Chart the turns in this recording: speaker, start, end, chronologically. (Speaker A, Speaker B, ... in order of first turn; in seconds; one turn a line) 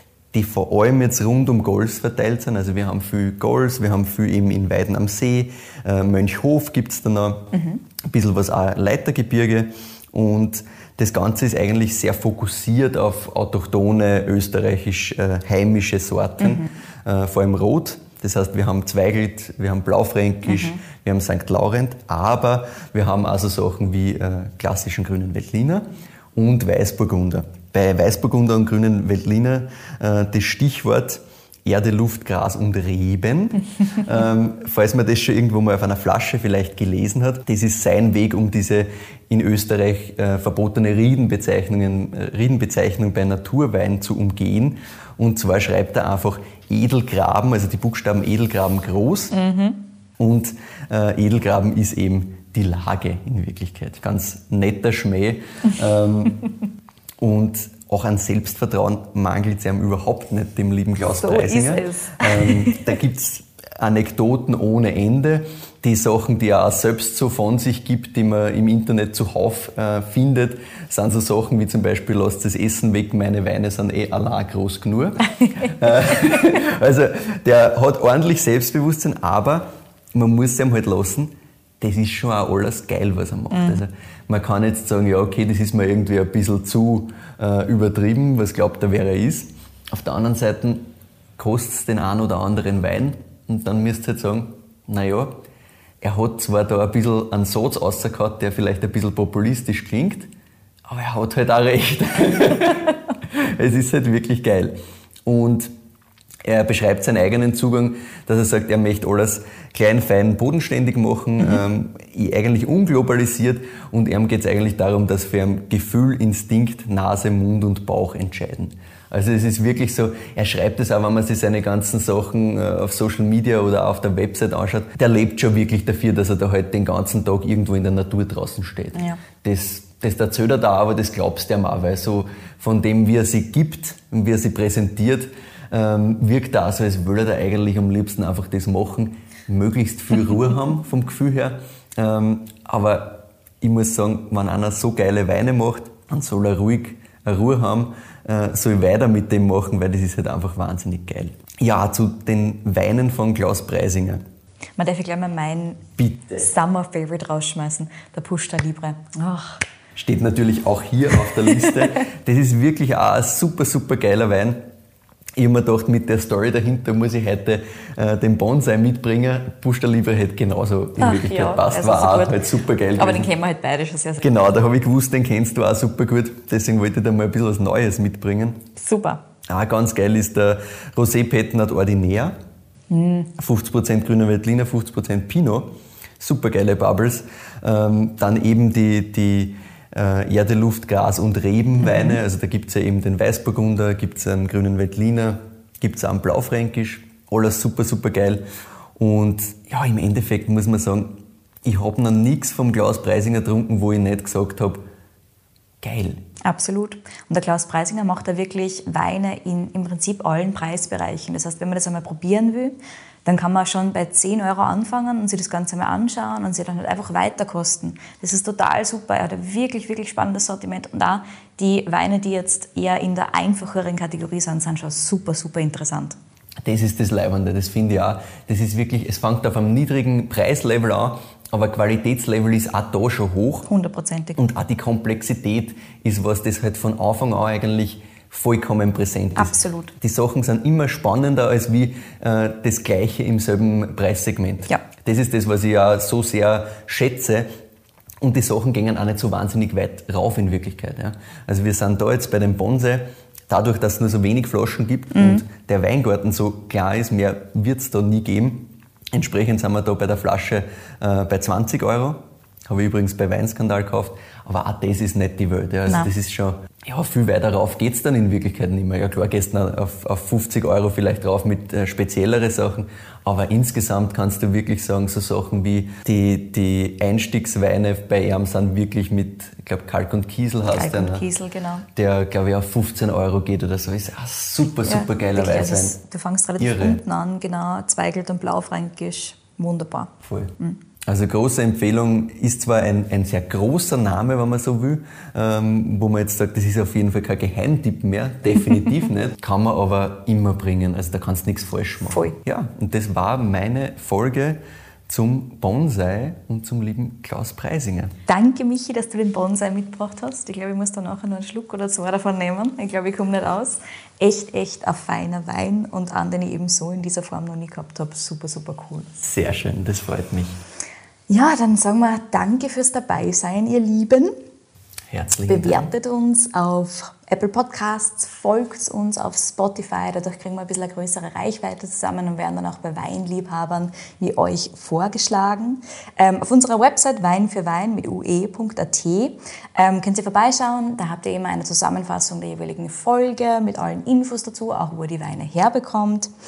Speaker A: 0.3-49.4
Speaker B: 7.5-7.8
Speaker B: 16.4-16.7
Speaker B: 20.5-20.8
Speaker B: 49.3-49.8
Speaker A: 50.2-56.5
Speaker A: 57.2-95.4
Speaker B: 61.1-63.0
Speaker B: 75.3-76.5
Speaker B: 83.5-83.8
Speaker A: 96.0-100.3
Speaker A: 100.9-105.7
Speaker A: 106.4-154.2
Speaker B: 154.8-159.6
Speaker A: 156.0-156.5
Speaker A: 160.0-164.7
Speaker A: 165.3-173.3
Speaker B: 171.0-172.4
Speaker B: 173.0-174.6
Speaker A: 174.2-178.6
Speaker B: 178.8-179.2
Speaker A: 179.5-182.3
Speaker B: 182.9-183.3
Speaker A: 183.4-198.4
Speaker B: 191.8-192.2
Speaker A: 199.0-204.8
Speaker A: 205.8-206.2
Speaker B: 206.4-226.2
Speaker A: 226.6-233.7
Speaker B: 233.7-234.4
Speaker A: 234.4-247.5
Speaker B: 239.4-239.9
Speaker A: 248.2-281.3
Speaker B: 255.1-255.4
Speaker B: 280.6-281.9
Speaker A: 281.9-286.0
Speaker B: 284.8-290.8
Speaker A: 286.6-287.0
Speaker A: 290.2-290.6
Speaker A: 291.1-308.1
Speaker B: 308.3-319.2
Speaker A: 319.2-320.6
Speaker B: 321.3-324.3
Speaker A: 325.1-325.9
Speaker B: 325.5-346.3